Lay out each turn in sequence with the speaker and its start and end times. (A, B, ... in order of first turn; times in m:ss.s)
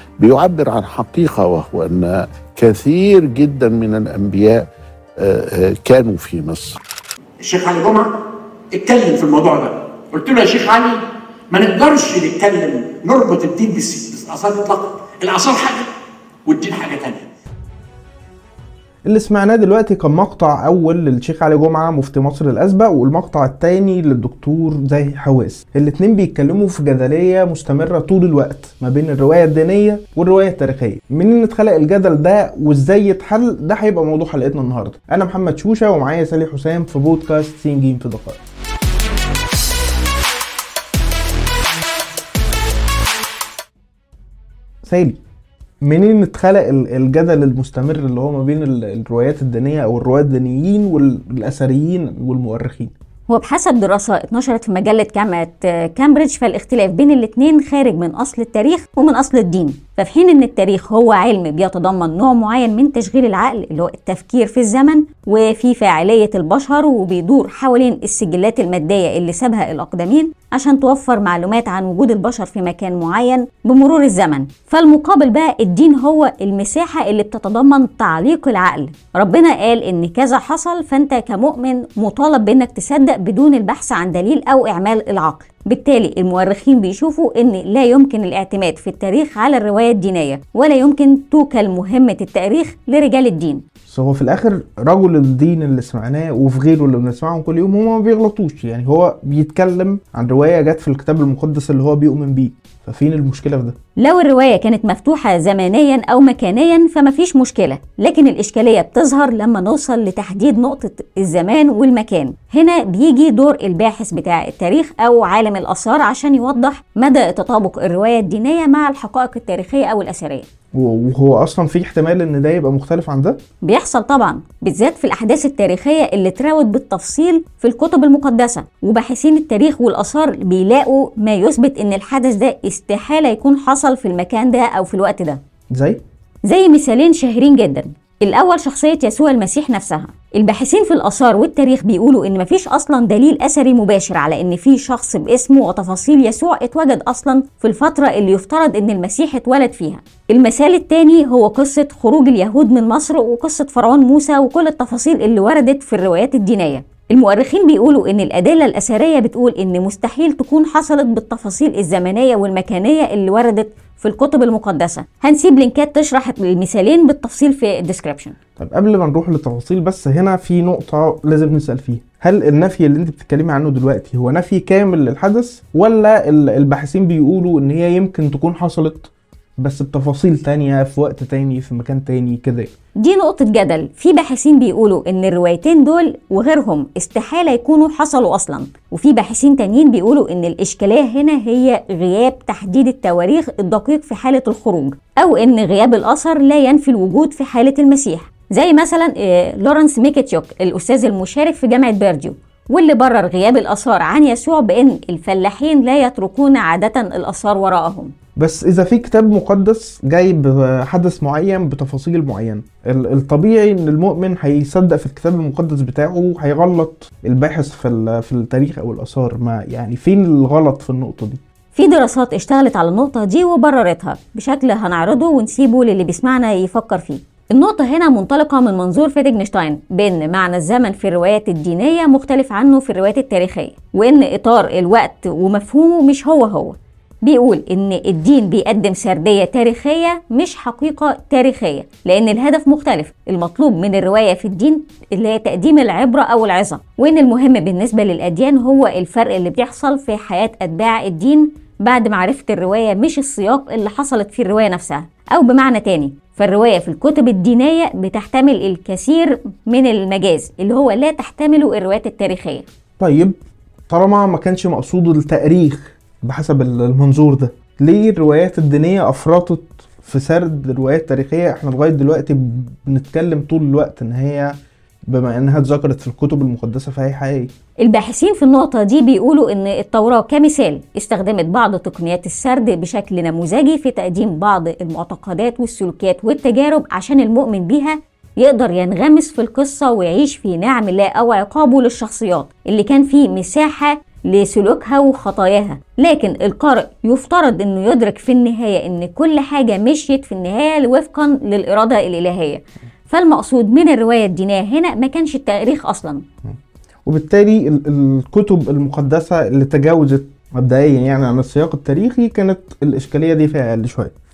0:00.2-0:04.6 A
0:05.2-0:06.8 A
0:07.4-0:08.1 B
0:08.7-0:15.9 B
0:16.5-0:17.3 B
0:19.0-0:38.4 C
0:44.8-0:45.2 C
0:45.8-0:52.9 C
0:53.3-1:33.6 D
1:33.9-1:43.8 C
1:44.0-2:00.5 D
2:00.7-2:03.4 C
2:03.6-2:15.4 D
2:15.7-2:16.0 C
2:16.5-2:48.4 D
2:48.6-3:02.7 C
3:03.0-3:28.1 D
3:28.4-3:41.4 C
3:41.7-4:22.7 D
4:23.0-4:37.5 C
4:37.8-5:06.2 D
5:06.4-5:14.1 C